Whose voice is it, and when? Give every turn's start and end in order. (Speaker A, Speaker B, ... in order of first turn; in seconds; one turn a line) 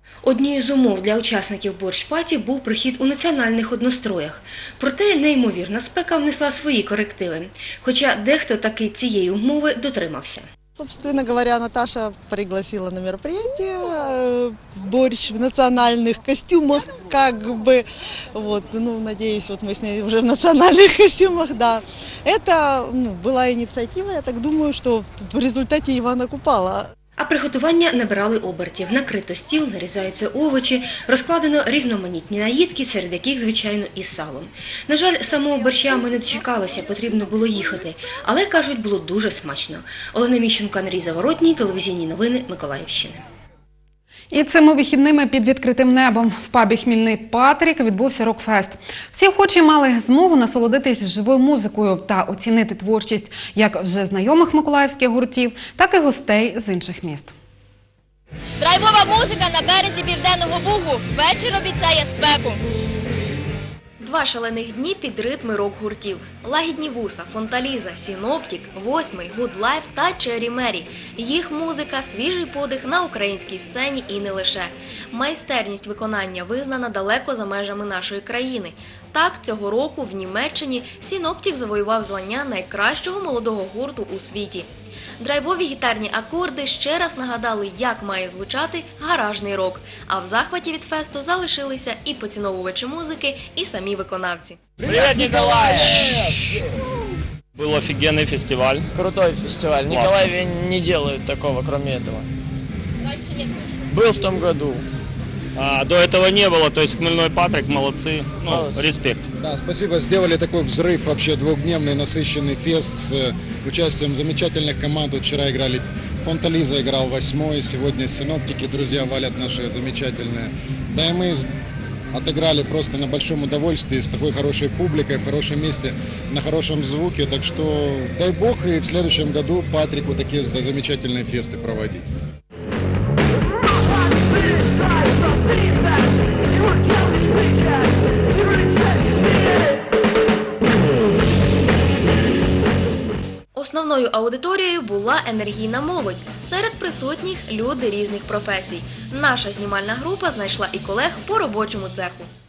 Speaker A: 0.2-10.5
Speaker B: 10.8-26.9
Speaker A: 27.2-43.2
Speaker C: 44.3-57.3
Speaker D: 58.6-62.5
Speaker E: 64.0-84.7
Speaker E: 85.2-94.6
Speaker F: 94.8-96.5
Speaker F: 97.5-98.9
Speaker G: 98.9-102.2
Speaker F: 99.9-100.3
Speaker G: 103.9-104.8
Speaker F: 105.5-109.2
Speaker G: 108.5-108.8
Speaker H: 109.4-121.5
Speaker H: 122.1-132.1
Speaker E: 143.5-152.3